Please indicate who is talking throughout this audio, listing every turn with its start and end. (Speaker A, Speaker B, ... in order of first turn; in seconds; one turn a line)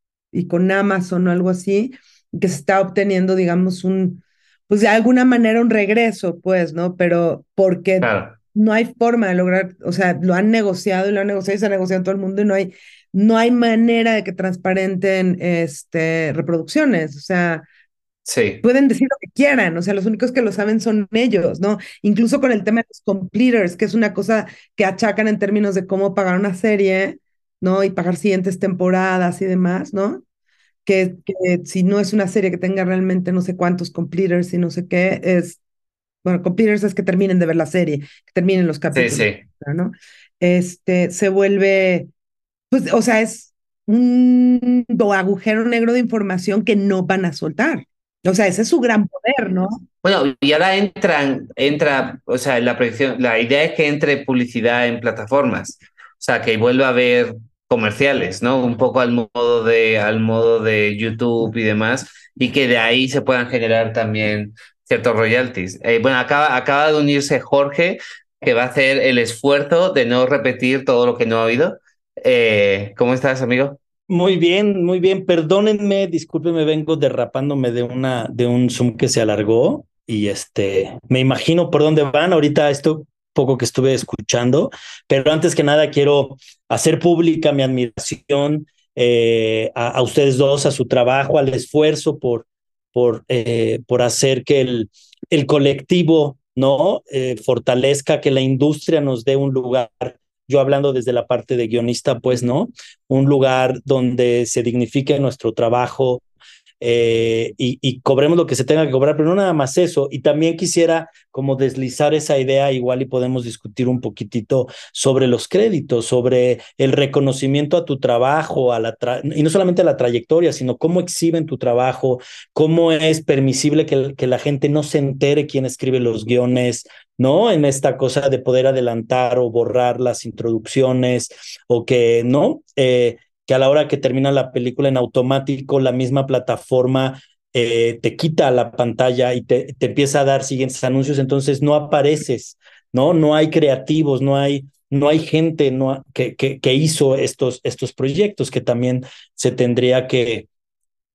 Speaker A: 0.3-17.6
Speaker B: 8.0-8.3
Speaker B: 18.3-18.6
Speaker A: 18.6-30.2
Speaker A: 30.8-35.6
Speaker A: 36.2-42.1
Speaker B: 38.9-39.4
Speaker A: 42.7-49.8
Speaker B: 50.0-73.8
Speaker C: 74.1-106.2
Speaker C: 106.8-150.5